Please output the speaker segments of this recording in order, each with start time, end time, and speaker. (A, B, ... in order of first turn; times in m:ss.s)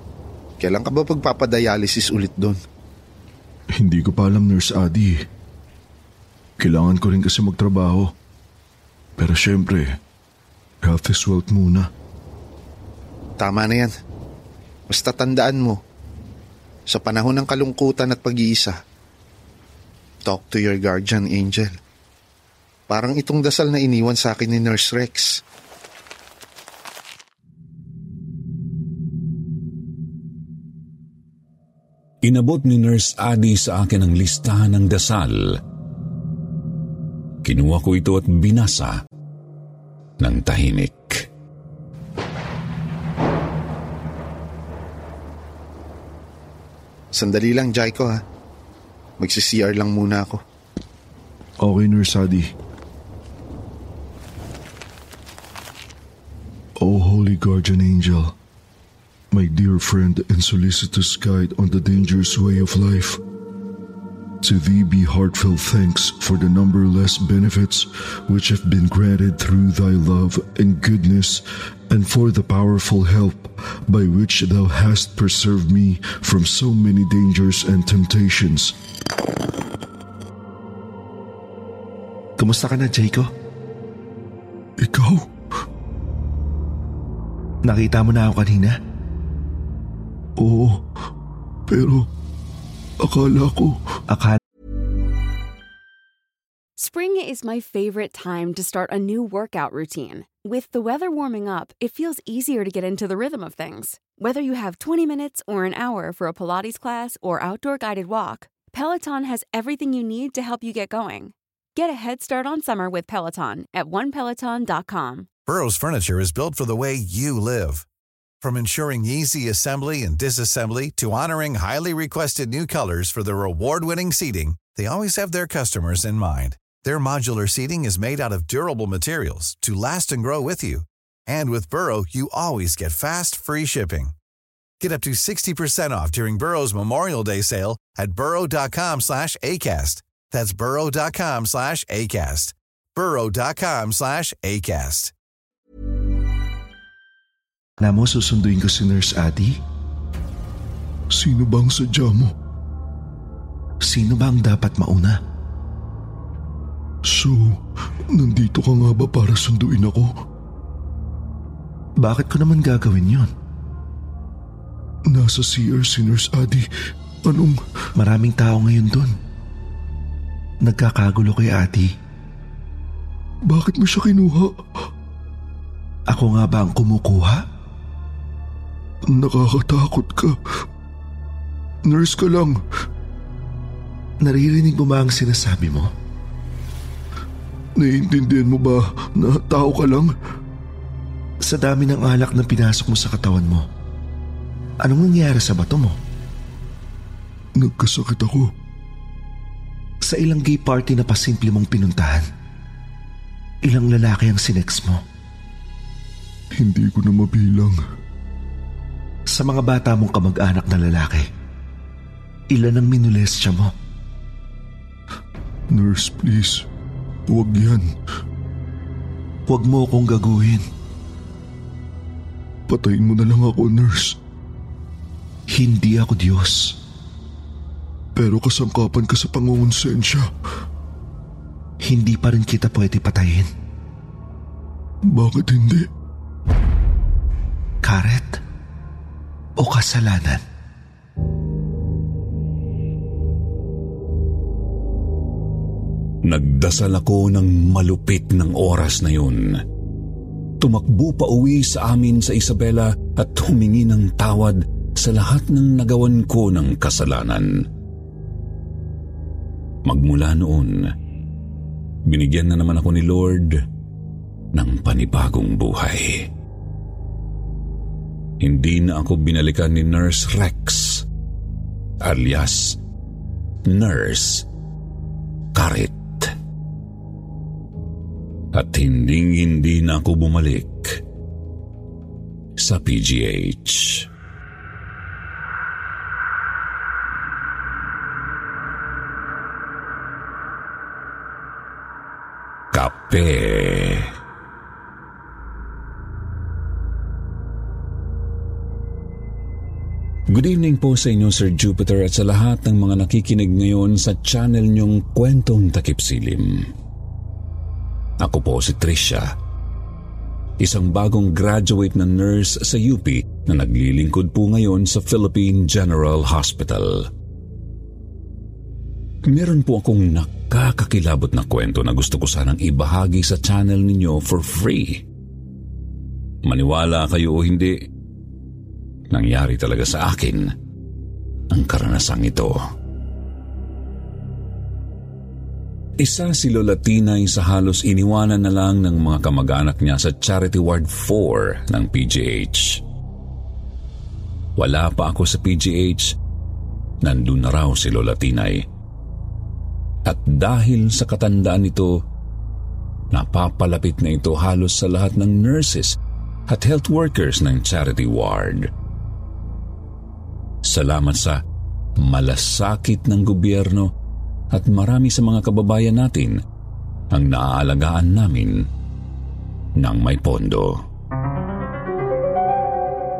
0:00.6-0:02.6 A
0:03.8-0:05.2 B
0:06.6-0:08.1 B
0:09.2-0:09.9 B
0:10.8-0:11.9 B
0:13.4-0:13.9 A
0:14.9-0:15.8 A
0:16.9-0:18.8 A
0:20.2-0:21.7 A
0:22.9-0:25.4 A
0:32.2-0:35.6 C
0:37.4-0:39.0 C
0:40.2-0:41.2 C
0:47.1-0:48.2 A
0:49.2-0:50.4 A
0:51.6-0:52.4 B
0:56.8-0:58.3 B
0:59.3-1:03.2 B
1:04.4-1:18.7 B
1:22.4-1:23.3 D
1:24.8-1:25.2 B
1:27.7-1:28.8 D
1:30.4-1:30.8 B
1:31.7-1:32.0 B
1:33.0-1:33.8 B
1:34.1-1:34.4 D
1:36.8-1:55.3 E
1:55.5-1:57.8 F
1:58.4-2:14.1 F
2:14.8-2:25.1 F
2:27.8-2:29.6 D
2:31.1-2:32.3 B
2:33.8-2:35.2 D
2:37.1-2:37.6 B
2:38.1-2:40.1 B
2:42.0-2:43.3 D
2:45.1-2:46.6 B
2:47.2-2:47.6 B
2:48.0-2:49.1 D
2:50.6-2:51.9 D
2:53.5-2:54.5 B
2:56.1-2:57.4 D
2:59.1-3:00.3 B
3:01.8-3:02.6 B
3:04.2-3:05.9 D
3:07.8-3:10.1 B
3:11.4-3:13.6 D
3:14.8-3:16.0 D
3:17.6-3:18.4 B
3:20.0-3:22.2 D
3:23.6-3:25.0 D
3:26.6-3:27.8 B
3:29.3-3:31.2 D
3:32.5-3:33.7 D
3:35.7-3:36.6 B
3:37.3-3:37.9 B
3:39.5-3:40.6 D
3:42.7-3:44.2 B
3:45.5-3:46.7 D
3:48.2-3:50.2 B
3:51.8-3:53.5 D
3:55.1-3:55.9 B
3:57.8-3:58.3 D
3:59.6-4:00.4 D
4:06.3-4:09.6 C
4:10.6-4:17.6 C
4:19.8-4:20.9 C
4:22.1-4:23.6 C
4:24.6-4:26.2 C
4:28.4-4:31.0 C
4:32.0-4:32.8 C
4:33.7-4:34.4 C
4:35.5-4:36.3 C
4:38.5-4:41.0 C
4:42.6-4:44.1 C
4:52.7-4:54.1 C
5:00.3-5:06.7 C
5:08.2-5:09.3 C
5:10.6-5:17.1 C
5:19.3-5:25.0 C
5:26.4-5:27.7 C
5:29.1-5:30.5 C
5:31.5-5:32.6 C
5:36.0-5:42.8 C
5:44.6-5:46.1 C
5:47.0-5:48.6 C
5:50.1-5:51.9 C
5:53.1-5:56.0 C
5:56.5-5:58.7 C
6:00.7-6:01.4 C
6:02.0-6:03.9 C
6:04.5-6:06.4 C
6:07.1-6:08.6 C
6:09.8-6:10.7 C